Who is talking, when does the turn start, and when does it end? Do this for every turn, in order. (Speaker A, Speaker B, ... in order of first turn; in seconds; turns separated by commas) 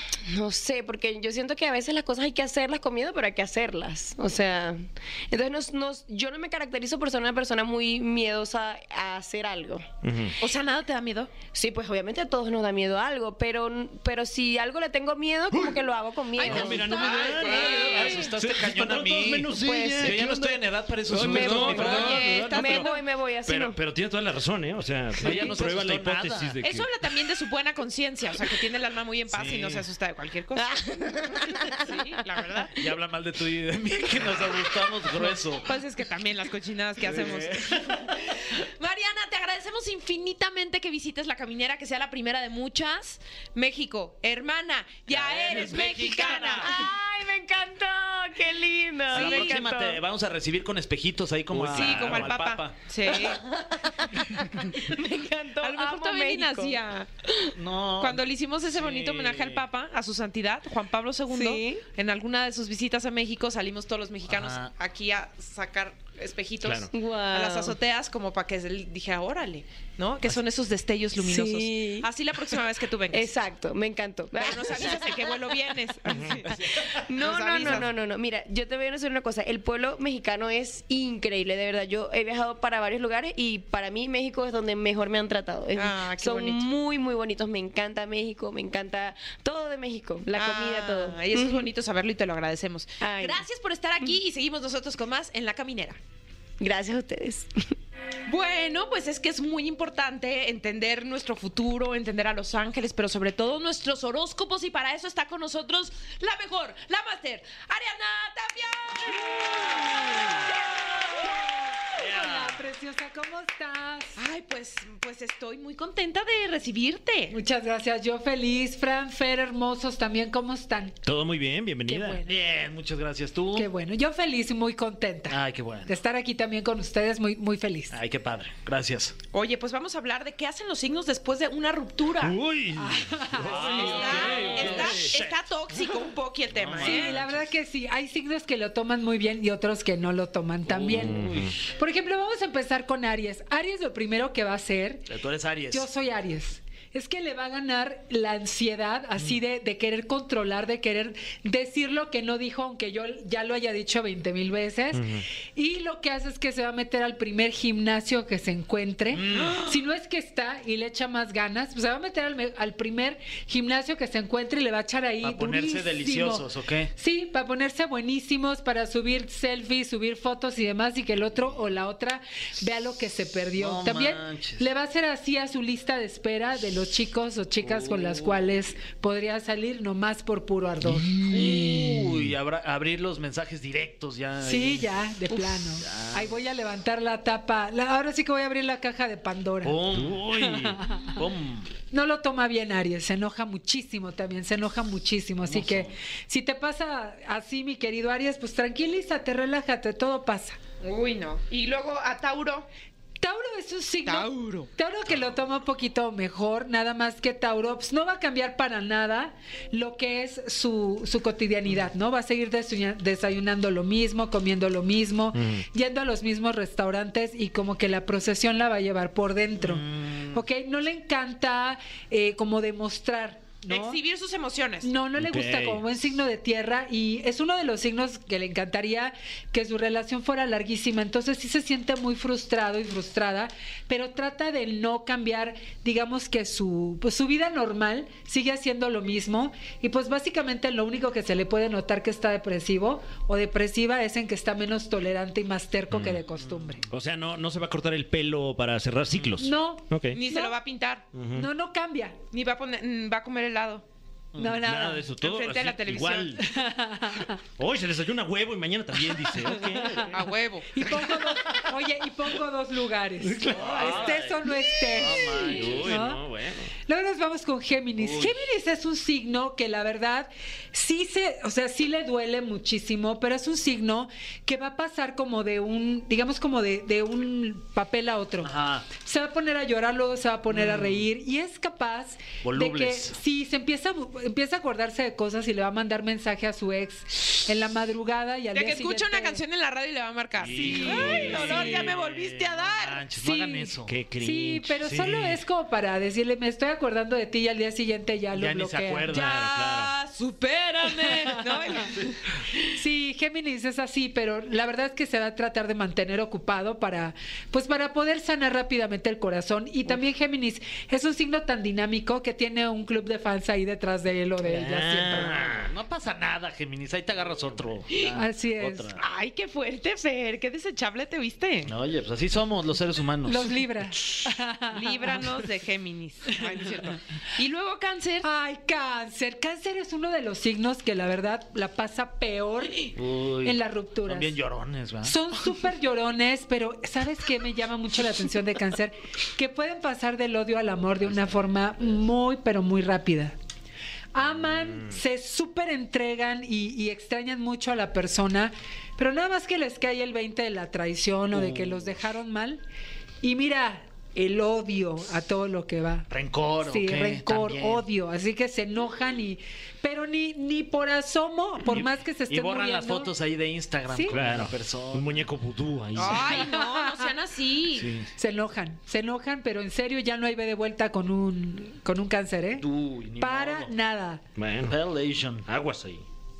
Speaker A: 0.3-9.9, Speaker B: 10.0-10.4, Speaker C: 10.4-11.3, Speaker A: 11.5-17.1, Speaker B: 15.5-15.8, Speaker C: 16.4-18.3, Speaker B: 16.4-22.9, Speaker D: 16.8-22.2, Speaker A: 19.5-20.5, Speaker A: 21.1-23.8, Speaker C: 21.4-23.0, Speaker B: 23.4-26.9, Speaker C: 25.1-25.6, Speaker D: 25.2-26.6, Speaker C: 26.6-30.8, Speaker D: 29.3-29.9, Speaker A: 30.6-32.0, Speaker C: 31.8-32.7, Speaker D: 32.7-35.7, Speaker C: 35.6-46.8, Speaker D: 37.0-38.2, Speaker D: 45.1-46.9, Speaker A: 46.6-50.0, Speaker D: 49.1-52.8, Speaker C: 49.1-49.6, Speaker B: 51.5-52.2, Speaker C: 51.7-53.4, Speaker A: 53.1-57.5, Speaker C: 55.6-57.1, Speaker D: 57.5-59.6, Speaker C: 58.0-73.3, Speaker A: 61.3-61.8, Speaker D: 64.3-64.7, Speaker B: 66.6-66.9, Speaker A: 66.9-67.7, Speaker A: 71.2-72.1, Speaker A: 73.1-75.5, Speaker C: 74.3-77.9, Speaker B: 76.1-76.4, Speaker A: 76.7-91.7, Speaker C: 85.7-86.6, Speaker C: 90.3-96.0, Speaker A: 93.0-93.4, Speaker A: 96.6-97.5, Speaker C: 98.3-111.5, Speaker E: 109.3-114.2, Speaker D: 112.0-112.6, Speaker C: 114.2-117.4, Speaker E: 117.3-121.0, Speaker B: 121.0-122.2, Speaker E: 121.9-122.4, Speaker D: 122.2-123.7, Speaker E: 123.5-128.0, Speaker D: 125.3-125.9, Speaker D: 127.9-129.1, Speaker C: 129.3-132.4, Speaker B: 132.2-135.1, Speaker E: 132.8-134.5, Speaker D: 133.4-135.4, Speaker C: 133.6-137.2, Speaker D: 136.5-137.5, Speaker E: 136.8-145.1, Speaker D: 140.7-141.5, Speaker B: 140.9-141.5, Speaker D: 145.1-145.9, Speaker E: 145.7-166.4, Speaker B: 154.9-155.2, Speaker D: 159.1-159.8, Speaker C: 159.3-159.7, Speaker D: 165.2-166.9, Speaker E: 166.9-181.9, Speaker D: 173.6-174.7, Speaker D: 177.6-178.6, Speaker B: 180.8-182.3, Speaker D: 181.1-186.4, Speaker E: 184.4-191.2, Speaker D: 189.6-191.7, Speaker B: 189.9-190.8, Speaker E: 191.9-200.6, Speaker D: 195.4-195.9, Speaker C: 200.8-202.7, Speaker E: 203.2-224.0, Speaker C: 204.1-204.7, Speaker B: 215.3-215.6, Speaker D: 219.6-220.4, Speaker C: 223.7-224.9, Speaker E: 224.8-246.8, Speaker B: 225.2-225.8, Speaker B: 245.9-246.2, Speaker D: 246.3-246.8, Speaker B: 246.9-250.2, Speaker E: 249.4-250.6, Speaker C: 250.1-251.0, Speaker B: 251.1-251.5, Speaker E: 251.3-252.2, Speaker C: 252.3-253.8, Speaker D: 254.3-254.6, Speaker E: 254.4-255.1, Speaker B: 254.4-256.4, Speaker C: 255.2-256.4, Speaker E: 256.4-257.4, Speaker B: 257.6-260.2, Speaker E: 259.5-260.2, Speaker C: 260.0-260.7, Speaker E: 260.7-266.2, Speaker B: 263.2-266.7, Speaker D: 263.4-266.0, Speaker E: 266.9-289.4, Speaker D: 268.0-268.4, Speaker D: 278.4-278.9, Speaker D: 280.5-281.0, Speaker D: 282.4-283.2, Speaker C: 288.5-293.0, Speaker D: 290.4-294.0, Speaker E: 290.5-291.9, Speaker B: 290.6-291.7, Speaker E: 293.2-299.1, Speaker B: 293.9-294.7, Speaker D: 294.8-295.4, Speaker D: 298.3-299.3, Speaker B: 299.1-299.9, Speaker C: 299.1-302.2, Speaker E: 301.1-301.9, Speaker E: 302.7-315.6, Speaker B: 314.4-315.7, Speaker D: 315.2-319.0, Speaker E: 318.1-318.9, Speaker C: 318.9-321.7, Speaker D: 321.7-323.6, Speaker E: 323.2-325.4, Speaker C: 324.7-328.3, Speaker E: 326.3-326.8, Speaker E: 328.2-334.4, Speaker D: 332.9-335.2, Speaker E: 335.0-343.4, Speaker D: 341.0-341.4, Speaker E: 344.1-352.6, Speaker D: 351.3-351.8, Speaker E: 353.2-356.1, Speaker D: 356.1-357.8, Speaker E: 356.6-363.1, Speaker D: 361.7-365.3, Speaker E: 363.9-364.2, Speaker B: 364.1-366.5, Speaker C: 365.9-367.9, Speaker E: 366.3-367.1, Speaker D: 367.7-368.1, Speaker E: 368.1-374.2, Speaker D: 372.6-373.7, Speaker B: 374.4-374.8, Speaker D: 374.7-375.4, Speaker B: 375.4-376.0